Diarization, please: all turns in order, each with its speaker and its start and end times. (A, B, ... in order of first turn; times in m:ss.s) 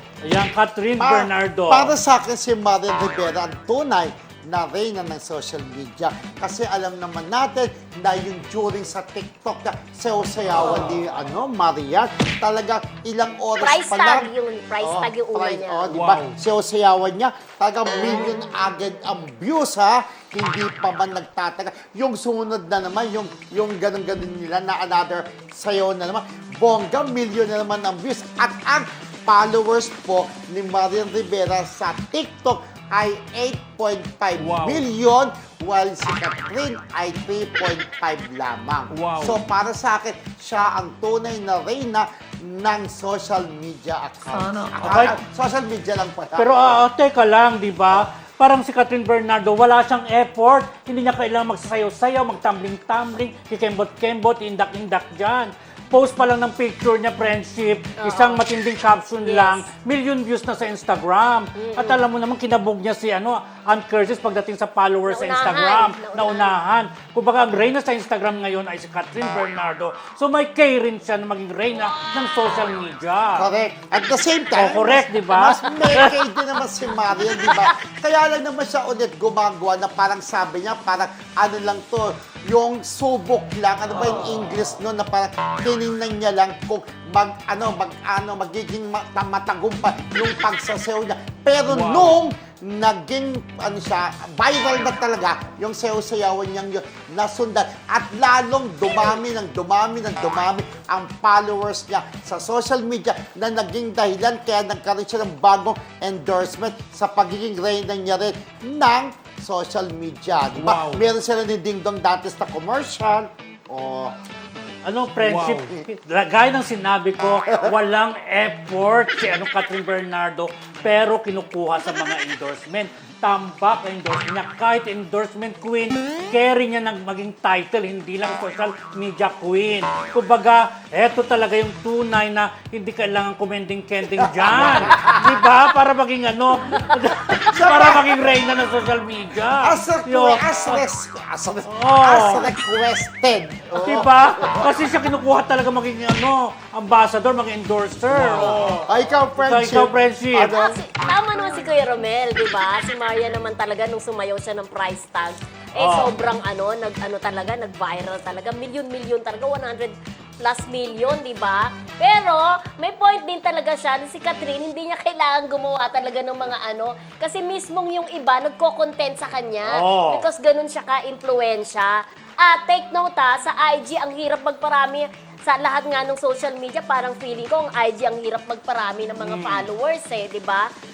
0:00.2-0:01.9 A
0:01.0-0:46.8 B
0:13.6-0:15.9 C
0:15.9-0:16.4 A
0:34.4-0:34.8 A
0:38.9-0:39.4 A
0:44.5-0:45.2 A
0:46.4-1:13.5 A
0:58.0-0:58.4 C
0:59.2-0:59.7 C
1:01.5-1:02.0 C
1:05.1-1:06.6 C
1:13.3-1:54.1 B
1:14.5-1:16.2 A
1:31.7-1:32.2 A
1:50.5-1:51.0 A
1:54.8-2:20.8 A
1:55.2-1:55.8 B
2:14.2-2:15.3 B
2:17.5-2:18.2 B
2:19.6-2:24.8 B
2:21.7-2:22.5 A
2:23.7-2:30.6 A
2:28.1-2:30.8 B
2:30.5-3:00.7 C
2:35.8-2:36.2 A
2:49.6-2:50.3 A
2:59.2-2:59.7 A